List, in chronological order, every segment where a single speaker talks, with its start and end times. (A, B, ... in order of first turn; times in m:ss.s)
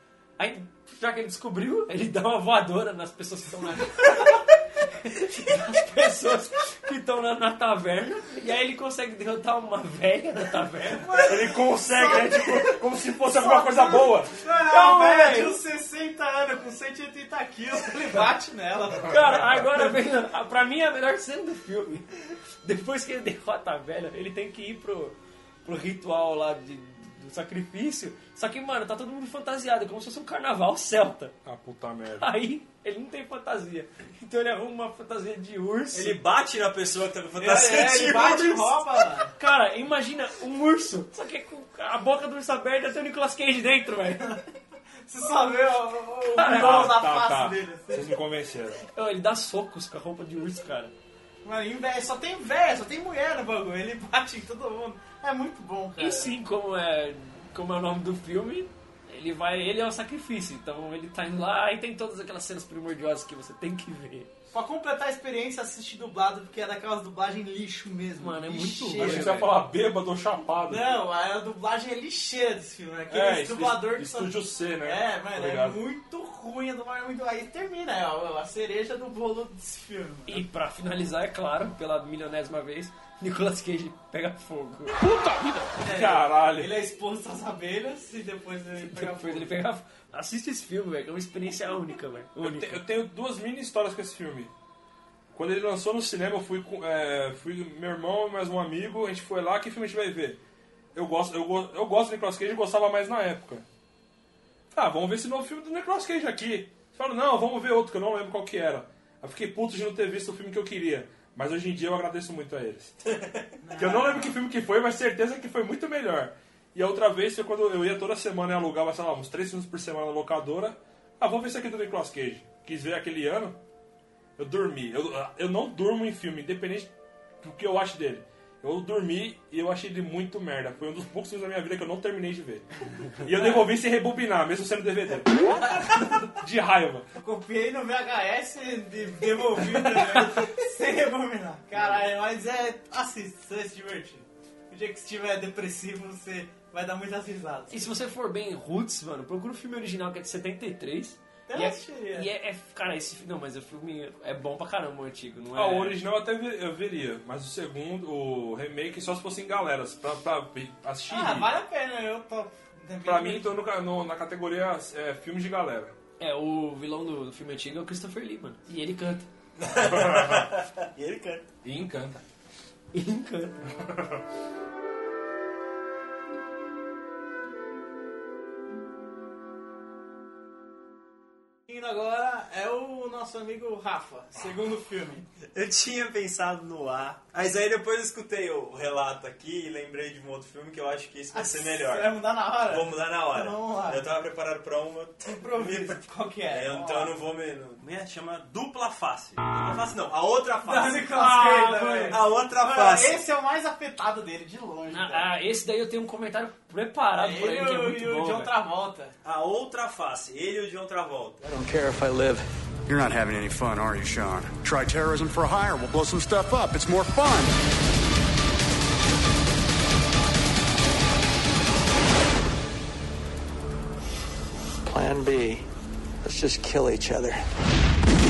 0:00.4-0:04.4 A
0:05.0-0:11.1 A
0:10.9-0:12.8 B
0:11.2-0:14.4 C
0:13.4-0:19.7 B
0:14.7-0:15.6 A
0:19.1-0:22.1 A
0:22.6-0:31.4 A
0:31.4-0:32.3 C
0:32.2-0:36.2 A
0:35.9-0:38.8 D
0:37.4-0:39.3 B
0:39.4-0:44.4 A
0:45.1-0:48.2 B
0:46.4-0:46.9 A
0:46.4-0:48.8 C
0:49.0-0:50.9 A
0:51.4-0:56.3 B
0:56.0-1:04.3 A
1:04.5-1:09.5 B
1:08.2-1:09.5 A
1:09.0-1:11.0 C
1:10.7-1:20.4 B
1:13.1-1:15.8 C
1:20.3-1:25.0 A
1:25.0-1:26.7 C
1:25.8-1:29.6 B
1:28.8-1:32.8 A
1:32.4-1:34.5 C
1:35.3-1:40.4 C
1:41.0-1:43.6 C
1:44.7-1:53.0 C
1:53.6-1:54.4 B
1:53.8-2:03.6 C
2:04.4-2:06.9 C
2:07.4-2:12.6 C
2:13.2-2:17.1 C
2:13.4-2:13.6 B
2:15.7-2:16.0 B
2:17.2-2:27.9 B
2:27.7-2:36.0 A
2:31.5-2:32.3 B
2:35.6-2:41.5 C
2:41.1-2:43.6 B
2:43.0-2:45.9 C
2:46.2-2:49.3 A
2:49.6-2:51.5 D
2:49.8-2:50.5 C
2:51.6-2:52.2 C
2:52.9-2:53.6 A
2:53.8-2:54.2 C
3:01.7-3:05.3 B
3:05.5-3:12.1 D
3:11.3-3:14.0 B
3:12.7-3:21.1 D
3:15.3-3:17.1 B
3:20.6-3:25.3 B
3:21.1-3:22.2 A
3:22.1-3:23.2 D
3:24.9-3:28.5 A
3:27.2-3:29.1 B
3:29.2-3:31.4 D
3:31.4-3:32.4 E
3:32.9-3:37.6 F
3:44.8-3:45.7 E
3:46.2-3:47.4 E